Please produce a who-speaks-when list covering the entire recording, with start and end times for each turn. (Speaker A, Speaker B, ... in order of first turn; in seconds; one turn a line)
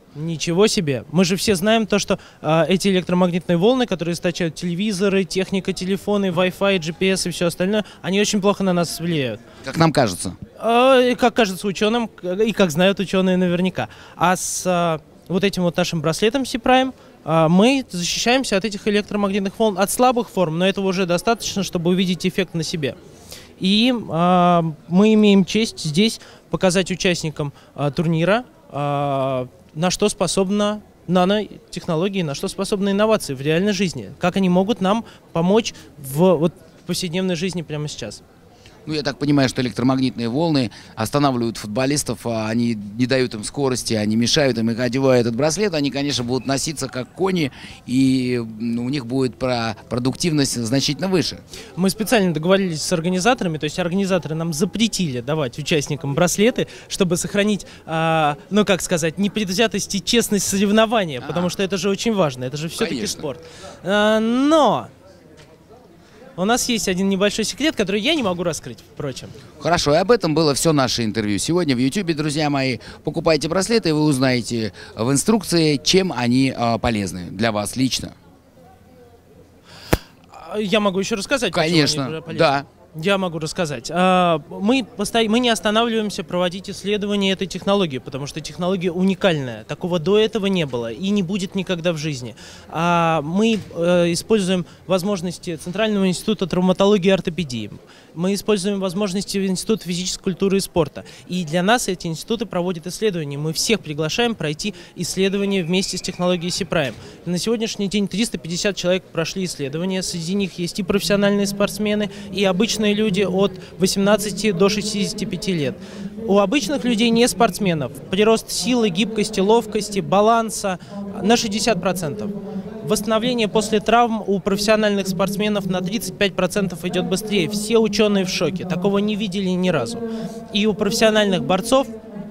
Speaker A: 0.1-9.4
Speaker B: 9.6-10.4
Speaker A: 10.6-23.0
Speaker A: 23.6-38.2
Speaker B: 38.9-51.4
Speaker A: 51.8-64.9
Speaker B: 61.2-61.5
Speaker B: 62.8-63.3
Speaker A: 66.4-69.3
Speaker B: 69.6-78.2
Speaker A: 80.3-131.9
Speaker B: 81.5-82.7